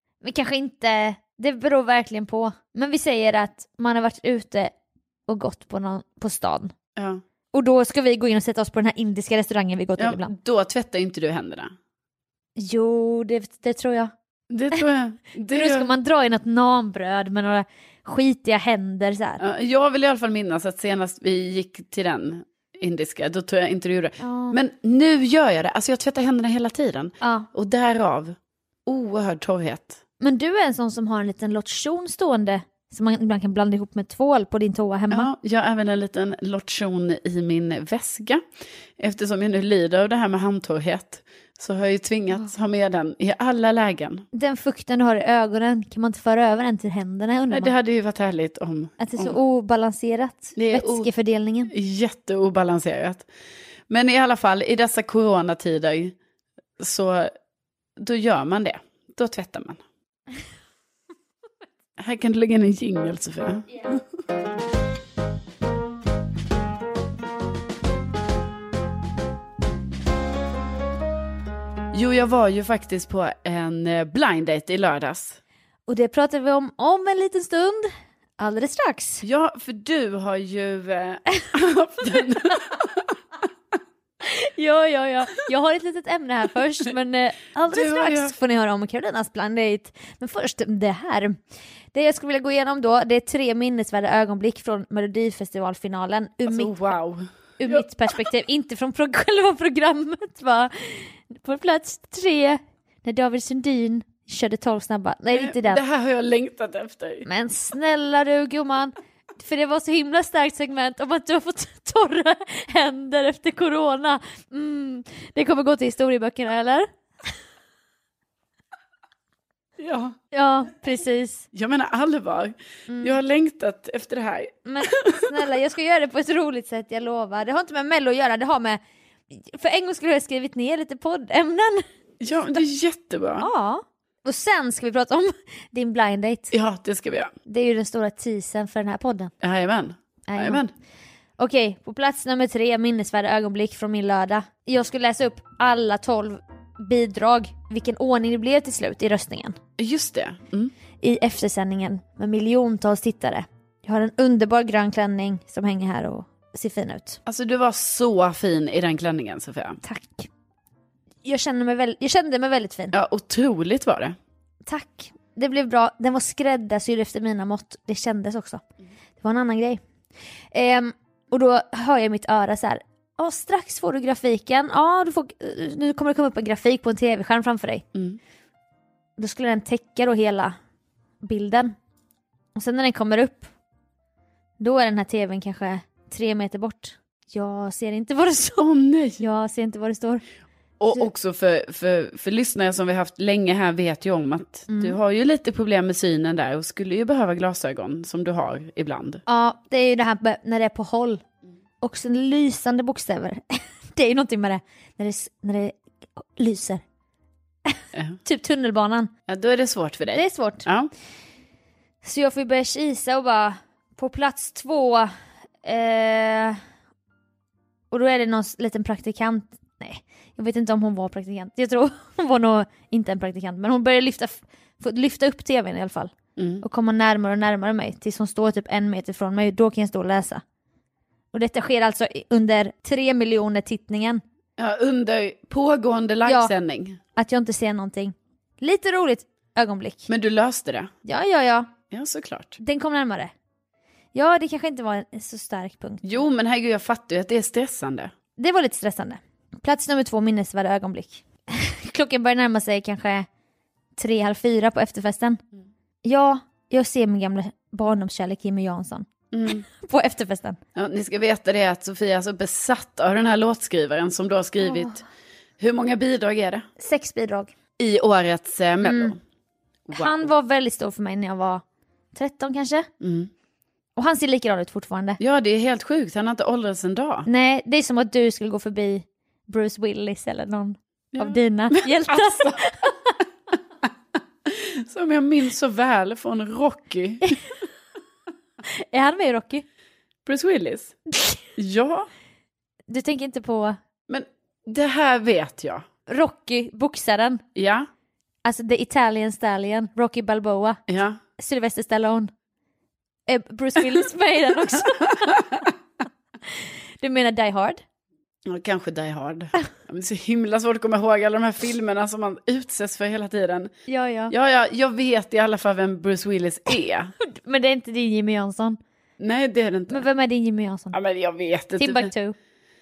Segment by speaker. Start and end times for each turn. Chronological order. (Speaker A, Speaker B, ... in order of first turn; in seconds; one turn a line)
Speaker A: 0.2-4.7
Speaker A: 5.3-6.7
Speaker B: 7.0-7.2
Speaker A: 7.5-10.3
Speaker B: 10.0-11.7
Speaker A: 12.6-14.1
Speaker B: 14.5-15.9
Speaker A: 15.5-19.4
Speaker B: 19.4-28.4
Speaker A: 24.2-24.6
Speaker A: 27.2-27.5
Speaker B: 28.9-30.0
Speaker A: 30.2-35.3
Speaker B: 35.1-38.4
Speaker B: 39.0-44.3
Speaker A: 44.3-47.7
Speaker B: 47.5-49.4
Speaker A: 49.0-51.7
Speaker B: 50.6-51.1
Speaker B: 51.7-53.3
Speaker B: 53.9-56.1
Speaker B: 56.8-57.3
Speaker B: 58.0-59.8
Speaker B: 62.0-64.0
Speaker B: 71.9-75.4
Speaker A: 75.9-79.2
Speaker B: 79.2-83.0
Speaker A: 84.2-91.4
Speaker B: 87.7-88.3
Speaker A: 91.9-96.8
Speaker B: 96.5-97.9
Speaker A: 97.6-105.8
Speaker B: 105.3-107.3
Speaker A: 107.3-116.9
Speaker B: 119.8-120.2
Speaker A: 120.3-121.5
Speaker B: 121.5-125.3
Speaker A: 122.9-123.2
Speaker A: 124.7-128.8
Speaker A: 129.3-131.8
Speaker B: 132.2-133.5
Speaker A: 133.4-136.5
Speaker B: 136.5-137.3
Speaker A: 137.5-139.3
Speaker B: 139.4-140.7
Speaker A: 140.3-140.6
Speaker A: 141.4-149.6
Speaker B: 149.8-150.7
Speaker A: 151.0-157.2
Speaker B: 157.3-159.8
Speaker A: 159.8-160.3
Speaker A: 161.2-162.9
Speaker B: 162.9-164.2
Speaker A: 164.7-168.6
Speaker A: 169.2-169.8
Speaker A: 170.5-177.8
Speaker A: 179.2-180.6
Speaker A: 181.2-181.8
Speaker A: 182.6-183.5
Speaker A: 184.6-188.7
Speaker B: 188.6-189.2
Speaker A: 189.2-190.2
Speaker B: 190.8-199.2
Speaker A: 194.7-195.0
Speaker A: 199.3-201.2
Speaker A: 201.8-206.8
Speaker A: 207.7-209.1
Speaker B: 207.9-208.2
Speaker B: 209.3-210.9
Speaker A: 210.1-210.7
Speaker A: 212.0-215.1
Speaker A: 215.6-216.6
Speaker A: 217.9-230.4
Speaker B: 226.4-226.6
Speaker A: 231.3-234.2
Speaker B: 234.6-237.0
Speaker A: 236.3-236.5
Speaker A: 237.2-240.1
Speaker B: 240.1-240.9
Speaker A: 241.1-241.7
Speaker B: 241.9-242.6
Speaker A: 242.6-243.3
Speaker A: 244.1-246.3
Speaker B: 246.0-248.1
Speaker A: 248.4-253.3
Speaker A: 254.0-255.4
Speaker A: 256.1-259.1
Speaker B: 259.3-259.6
Speaker A: 259.7-260.6
Speaker B: 260.8-265.0
Speaker A: 264.6-265.0
Speaker B: 265.6-266.7
Speaker A: 266.8-267.5
Speaker B: 267.8-269.2
Speaker A: 268.8-269.1
Speaker B: 269.9-270.3
Speaker A: 269.9-271.6
Speaker A: 272.1-272.9
Speaker B: 273.0-273.3
Speaker A: 274.0-275.2
Speaker B: 275.2-277.3
Speaker A: 277.3-283.1
Speaker B: 281.1-282.6
Speaker B: 284.5-287.4
Speaker A: 288.9-289.6
Speaker B: 290.3-291.0
Speaker B: 291.6-292.1
Speaker A: 292.9-293.8
Speaker B: 294.1-295.8
Speaker A: 296.1-297.4
Speaker B: 297.6-297.9
Speaker A: 298.4-300.8
Speaker B: 300.9-301.2
Speaker A: 301.4-302.3
Speaker A: 303.3-305.5
Speaker B: 305.2-305.5
Speaker A: 307.0-307.8
Speaker B: 308.5-313.7
Speaker A: 313.9-314.3
Speaker B: 314.3-317.2
Speaker A: 317.2-318.8
Speaker B: 319.2-320.1
Speaker A: 319.9-321.0
Speaker B: 320.9-322.1
Speaker A: 321.8-322.4